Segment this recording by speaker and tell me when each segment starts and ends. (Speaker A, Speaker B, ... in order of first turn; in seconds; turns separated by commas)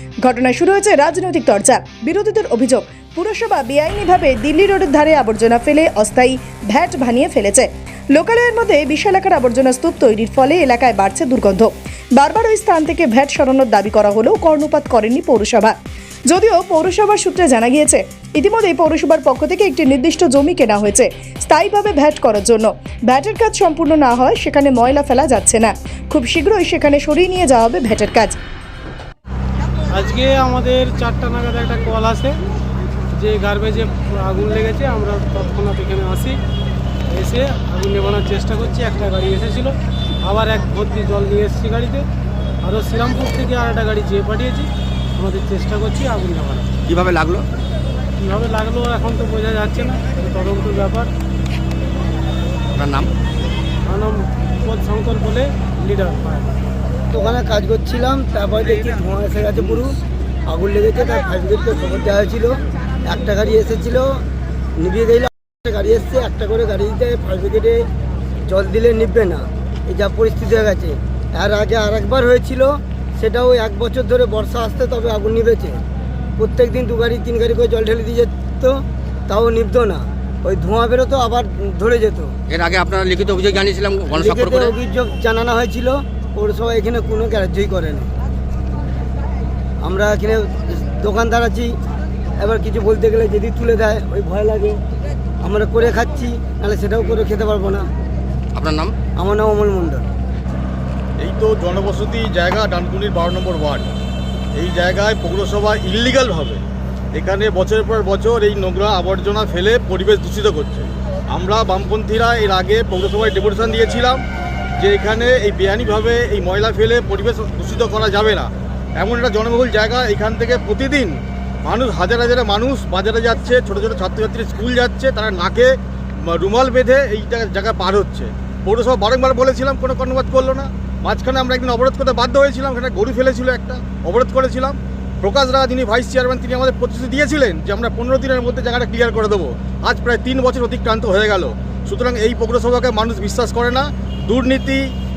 Speaker A: 0.2-15.8, Speaker A: 16.3-28.4, Speaker B: 29.9-32.3, Speaker B: 33.2-36.4, Speaker B: 37.1-42.0, Speaker B: 42.6-46.7, Speaker C: 46.9-47.4, Speaker B: 48.2-51.1, Speaker C: 52.8-53.1, Speaker B: 53.9-56.5, Speaker D: 57.1-60.0, Speaker D: 60.5-64.1, Speaker D: 64.8-67.8, Speaker D: 68.5-75.8, Speaker D: 76.4-82.3, Speaker C: 82.5-84.7, Speaker D: 84.1-88.1, Speaker D: 89.8-91.7, Speaker D: 92.4-94.8, Speaker D: 95.4-97.9, Speaker C: 98.5-99.0, Speaker D: 99.2-100.1, Speaker E: 101.2-103.9, Speaker E: 104.5-106.6, Speaker E: 107.1-114.2, Speaker E: 114.8-144.8